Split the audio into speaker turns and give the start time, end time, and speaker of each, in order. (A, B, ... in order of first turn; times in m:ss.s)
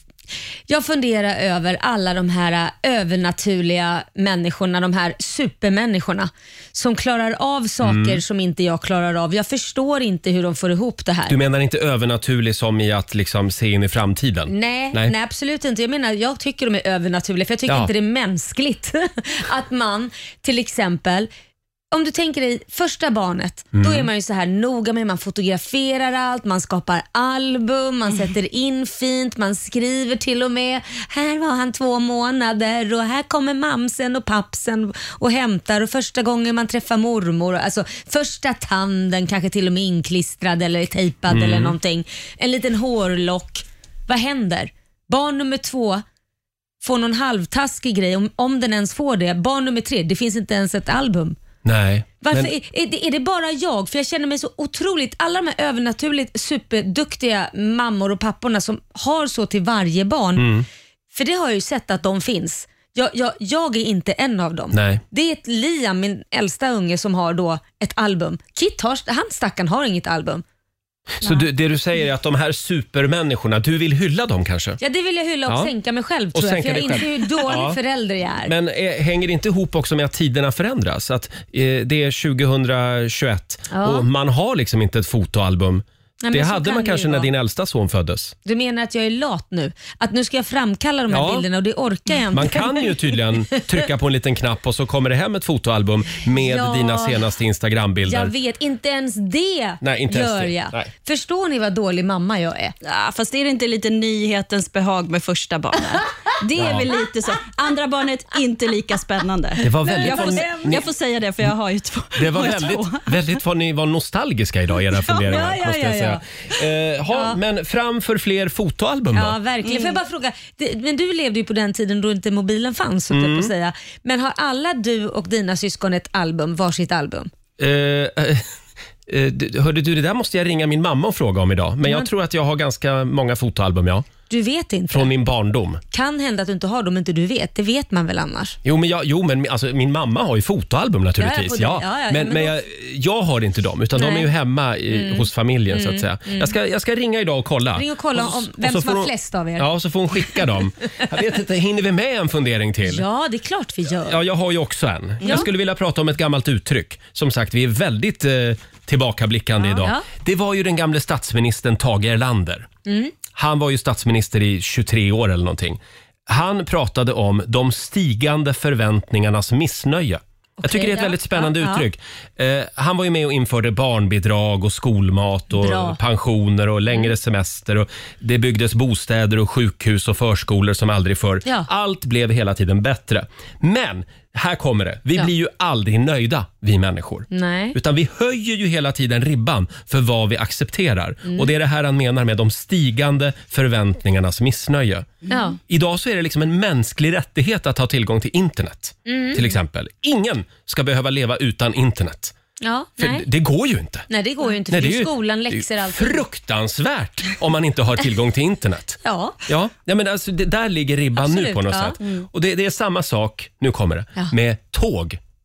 0:00.7-0:11.4 A
0:07.8-0:08.2 B
0:11.3-0:15.2 B
0:14.5-0:21.3 A
0:17.6-0:17.9 B
0:21.9-0:46.0 A
0:23.7-0:24.1 B
0:41.3-0:41.8 B
0:46.8-0:51.4 A
0:51.6-0:52.5 B
0:52.2-1:00.5 A
1:00.4-1:00.7 B
1:01.1-1:10.4 A
1:04.7-1:05.0 B
1:11.2-1:14.8 B
1:14.8-1:18.5 A
1:15.4-1:15.7 B
1:16.3-1:17.8 B
1:18.4-1:28.4 B
1:23.7-1:24.1 A
1:26.2-1:27.3 A
1:28.4-1:32.9 A
1:31.1-1:31.5 B
1:32.3-1:38.4 B
1:36.4-1:37.2 A
1:38.1-1:42.8 A
1:39.8-1:40.9 B
1:42.8-1:53.3 C
1:46.6-1:46.9 B
1:49.6-1:50.9 B
1:49.8-1:50.8 A
1:52.2-1:59.4 B
1:55.0-1:56.2 A
1:57.1-1:57.4 A
1:59.1-2:07.3 A
1:59.6-2:00.0 C
2:03.1-2:03.5 B
2:07.6-2:08.4 B
2:09.1-2:14.1 B
2:14.3-2:15.1 A
2:14.9-2:15.8 B
2:15.9-2:18.6 A
2:18.6-2:33.0 B
2:21.2-2:22.6 A
2:24.0-2:24.3 A
2:24.9-2:26.5 A
2:27.8-2:29.7 A
2:32.9-2:34.2 A
2:34.0-2:42.7 B
2:39.6-2:40.1 A
2:42.9-2:43.1 A
2:43.3-3:15.1 B
2:50.6-2:51.9 A
2:55.5-2:56.0 A
3:07.3-3:07.8 A
3:11.2-3:11.5 A
3:15.3-3:15.6 A
3:15.7-3:22.4 B
3:19.1-3:19.5 A
3:22.6-3:23.3 A
3:23.0-3:24.1 B
3:24.1-3:26.2 A
3:24.7-3:35.2 B
3:29.0-3:29.4 A
3:31.2-3:32.0 A
3:32.0-3:32.3 C